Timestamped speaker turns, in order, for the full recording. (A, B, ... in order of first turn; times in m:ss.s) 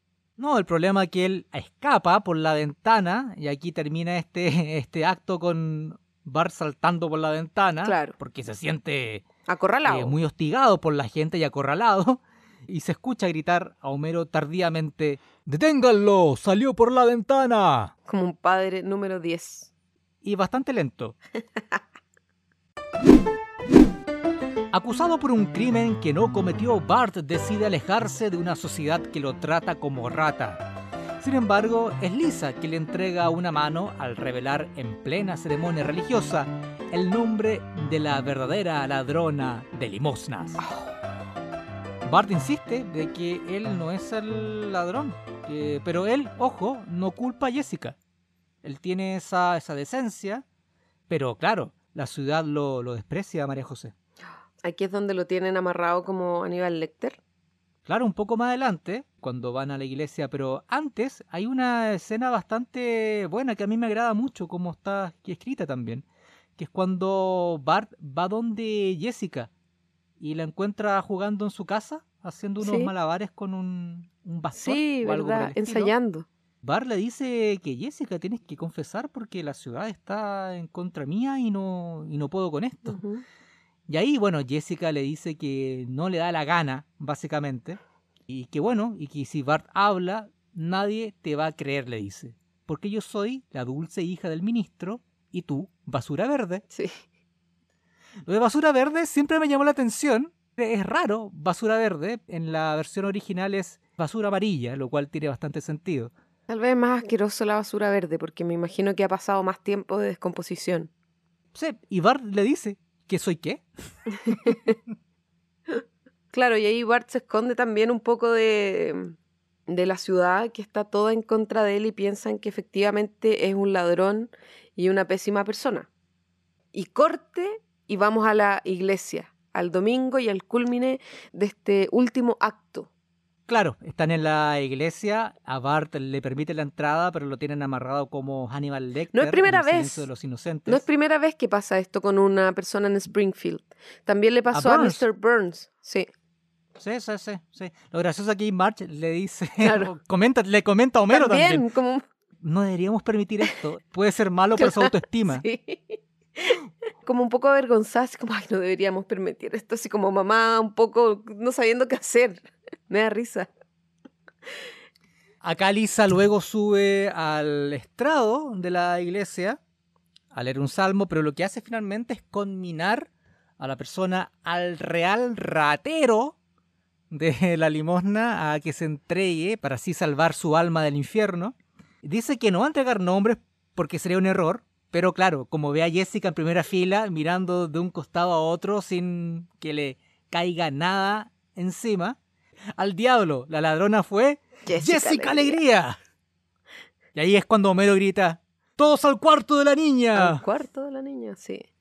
0:00.4-0:09.2 A
0:07.8-0:08.1 B
0:09.5-0:10.1 B
0:09.8-0:17.9 A
0:18.0-0:19.7 B
0:20.2-0:21.2 A
0:24.7-0:30.6 A
0:31.2-0:40.6 A
0:42.0-0:48.0 A
0:48.6-0:50.4 A
0:51.1-0:53.9 A
0:54.6-0:57.2 B
0:57.8-1:06.0 A
1:06.6-1:09.5 A
1:10.2-1:15.9 A
1:12.6-1:12.9 B
1:14.6-1:16.3 B
1:16.6-1:23.0 A
1:22.9-1:23.2 B
1:23.9-1:36.6 A
1:36.7-1:37.0 B
1:38.2-1:46.1 A
1:46.5-1:50.9 B
1:51.5-1:53.6 A
1:54.2-1:54.8 A
1:54.3-1:54.7 B
1:56.3-1:59.2 B
1:59.7-2:05.9 B
2:06.7-2:12.9 B
2:13.5-2:20.8 A
2:19.1-2:20.1 B
2:20.7-2:26.1 B
2:24.5-2:25.0 A
2:26.8-2:31.6 A
2:29.6-2:29.9 B
2:31.1-2:32.0 B
2:32.4-2:35.4 A
2:34.6-2:43.5 B
2:45.4-2:49.6 A
2:50.3-2:56.4 A
2:57.1-3:12.2 A
3:12.8-3:16.0 A
3:14.6-3:15.6 B
3:17.1-3:20.4 A
3:20.1-3:21.6 B